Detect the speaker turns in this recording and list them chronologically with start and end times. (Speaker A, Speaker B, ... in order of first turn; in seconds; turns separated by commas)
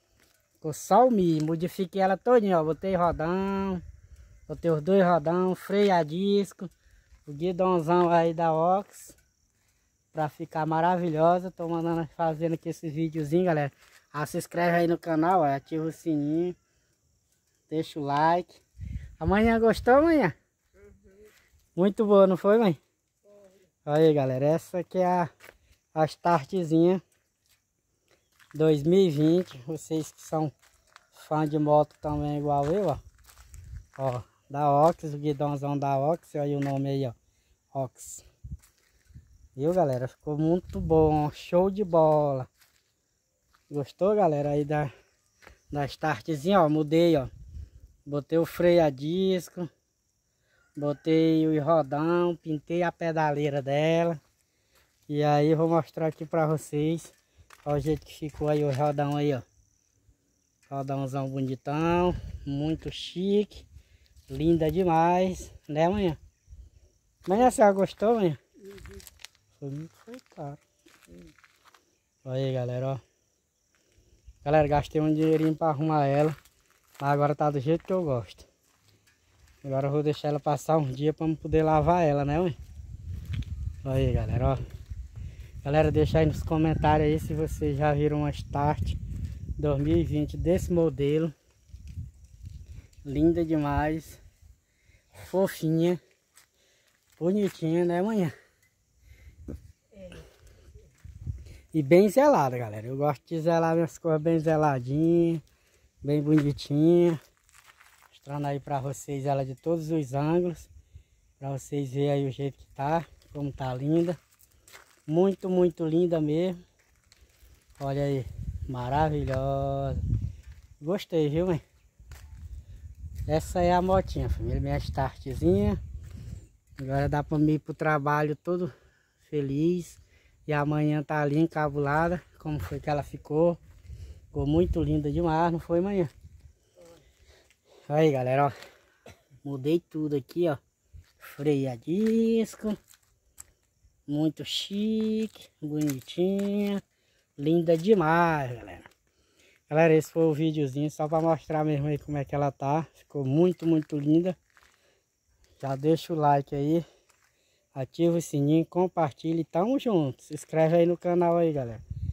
Speaker A: 0.6-3.8, Speaker A: 4.5-6.7, Speaker A: 7.2-9.2, Speaker A: 10.1-16.6, Speaker A: 17.7-18.6, Speaker A: 19.2-20.3, Speaker A: 21.8-22.8, Speaker A: 23.9-25.3, Speaker A: 25.9-27.0, Speaker A: 28.5-30.5, Speaker A: 31.1-33.0, Speaker A: 34.0-37.1, Speaker A: 37.7-38.2, Speaker A: 39.5-42.5, Speaker A: 43.7-44.9, Speaker A: 45.7-47.3, Speaker A: 48.0-49.7, Speaker A: 50.8-54.2, Speaker A: 55.1-57.1, Speaker A: 57.6-59.4, Speaker A: 60.7-63.6, Speaker A: 64.3-66.2, Speaker A: 67.2-68.4, Speaker A: 69.6-70.6, Speaker A: 72.2-73.0, Speaker A: 74.4-76.3, Speaker A: 77.0-78.5, Speaker A: 79.6-82.6, Speaker A: 83.8-84.6, Speaker A: 85.6-89.0, Speaker A: 89.6-91.3, Speaker A: 93.0-94.2, Speaker A: 95.2-96.0, Speaker A: 97.2-98.3, Speaker A: 101.7-105.4, Speaker A: 106.0-107.2, Speaker A: 108.1-110.7, Speaker A: 111.4-114.2, Speaker A: 115.1-116.6, Speaker A: 117.8-120.0, Speaker A: 120.8-121.6, Speaker A: 123.3-125.8, Speaker A: 126.8-133.6, Speaker A: 134.3-136.1, Speaker A: 137.9-138.5, Speaker A: 139.4-140.6, Speaker A: 141.2-142.8, Speaker A: 144.1-146.8, Speaker A: 147.4-148.9, Speaker A: 149.7-154.3, Speaker A: 155.6-156.8, Speaker A: 157.7-161.8